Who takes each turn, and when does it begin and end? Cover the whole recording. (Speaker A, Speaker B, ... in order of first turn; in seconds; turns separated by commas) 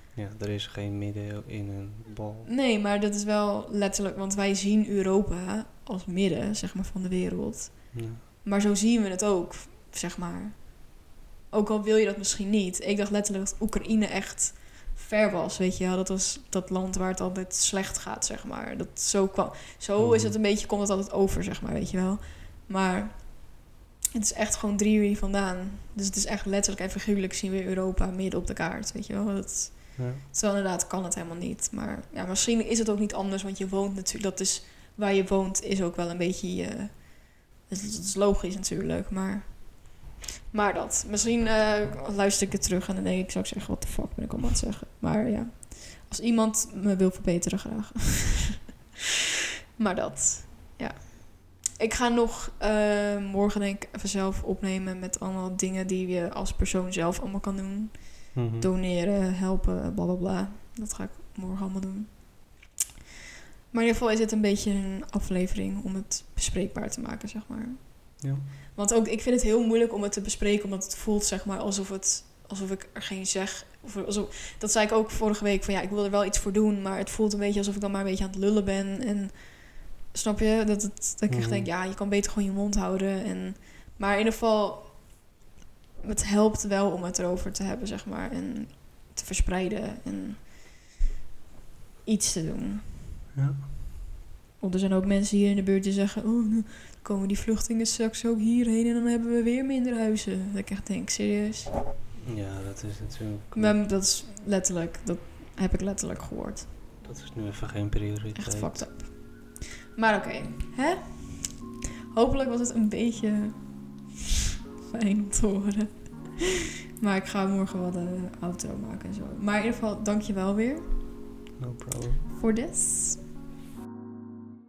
Speaker A: 0.1-2.5, Speaker B: 2.4-48.7, Speaker A: 7.9-8.2, Speaker A: 20.0-20.4, Speaker A: 30.0-30.2, Speaker B: 49.8-62.5, Speaker A: 58.3-58.7, Speaker B: 63.7-85.2, Speaker A: 81.3-81.7, Speaker B: 86.0-90.5, Speaker B: 92.0-93.0, Speaker A: 93.3-93.6, Speaker B: 94.6-101.7, Speaker A: 102.2-103.8, Speaker B: 103.5-106.7, Speaker A: 107.0-108.9, Speaker B: 108.3-114.1, Speaker B: 114.8-121.1, Speaker A: 121.6-122.2, Speaker B: 122.3-123.2